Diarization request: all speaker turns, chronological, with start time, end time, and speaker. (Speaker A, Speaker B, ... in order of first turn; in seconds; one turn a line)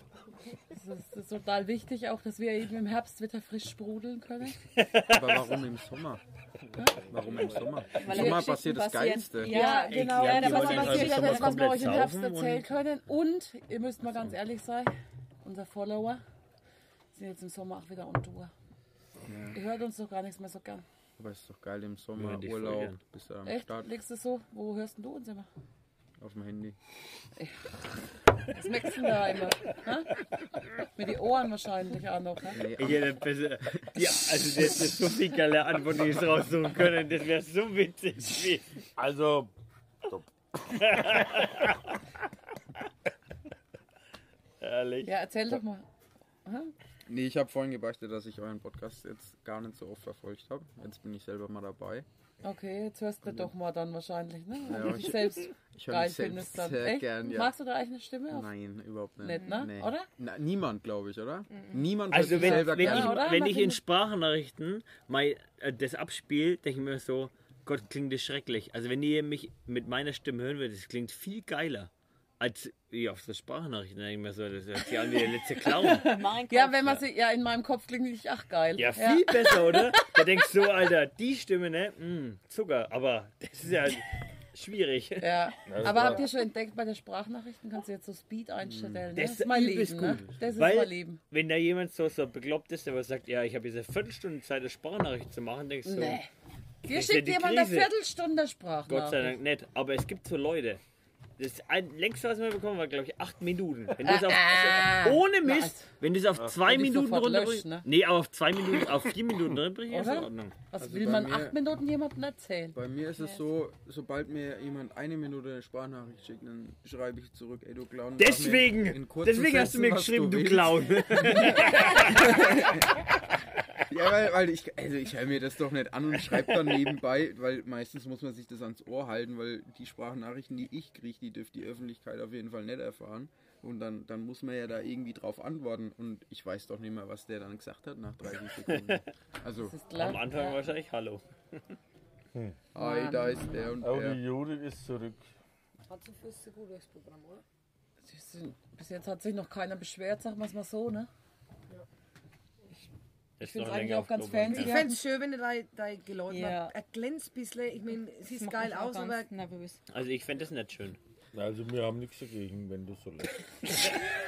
Speaker A: 0.7-4.6
Speaker B: 4.8-5.6
Speaker C: 5.1-6.2
Speaker A: 6.8-7.1
Speaker C: 7.1-9.7
Speaker D: 8.0-11.6
Speaker A: 8.1-8.6
Speaker A: 9.4-14.9
Speaker B: 9.6-12.7
Speaker E: 11.0-11.3
Speaker A: 15.4-16.2
Speaker A: 17.1-18.5
Speaker C: 19.3-19.6
Speaker A: 19.5-20.9
Speaker C: 21.2-23.9
Speaker B: 22.1-23.0
Speaker A: 23.4-25.5
Speaker C: 26.2-26.8
Speaker A: 27.4-27.7
Speaker A: 28.5-30.1
Speaker A: 30.9-32.6
Speaker C: 32.5-33.2
Speaker B: 32.8-38.7
Speaker F: 39.0-39.5
Speaker B: 40.7-41.9
Speaker B: 44.6-45.1
Speaker A: 45.0-45.9
Speaker A: 46.5-46.7
Speaker C: 47.1-52.1
Speaker A: 52.4-58.5
Speaker C: 53.2-53.5
Speaker C: 54.6-57.5
Speaker C: 58.3-63.3
Speaker A: 59.2-60.1
Speaker D: 59.3-59.7
Speaker D: 61.5-61.8
Speaker B: 62.1-76.1
Speaker A: 62.2-63.8
Speaker A: 75.6-80.4
Speaker D: 76.0-77.0
Speaker B: 78.8-86.2
Speaker A: 85.2-91.2
Speaker F: 85.7-86.3
Speaker C: 88.6-89.1
Speaker B: 89.2-96.2
Speaker C: 90.0-90.7
Speaker A: 95.8-96.3
Speaker A: 96.8-99.4
Speaker B: 96.9-97.9
Speaker B: 98.9-100.8
Speaker B: 101.4-110.6
Speaker A: 104.0-105.9
Speaker A: 106.6-107.9
Speaker A: 109.9-112.8
Speaker C: 110.8-111.6
Speaker C: 112.7-122.9
Speaker B: 118.2-122.6
Speaker C: 123.9-139.8
Speaker A: 139.6-140.6
Speaker B: 139.9-141.8
Speaker F: 142.3-142.6
Speaker C: 142.7-144.2
Speaker A: 142.8-143.8
Speaker F: 143.8-145.3
Speaker E: 145.9-147.4
Speaker A: 148.0-151.1
Speaker B: 153.4-154.9
Speaker A: 153.4-155.0
Speaker E: 154.4-159.3
Speaker D: 156.3-156.6
Speaker D: 158.3-159.8
Speaker B: 159.9-161.0
Speaker F: 161.3-163.3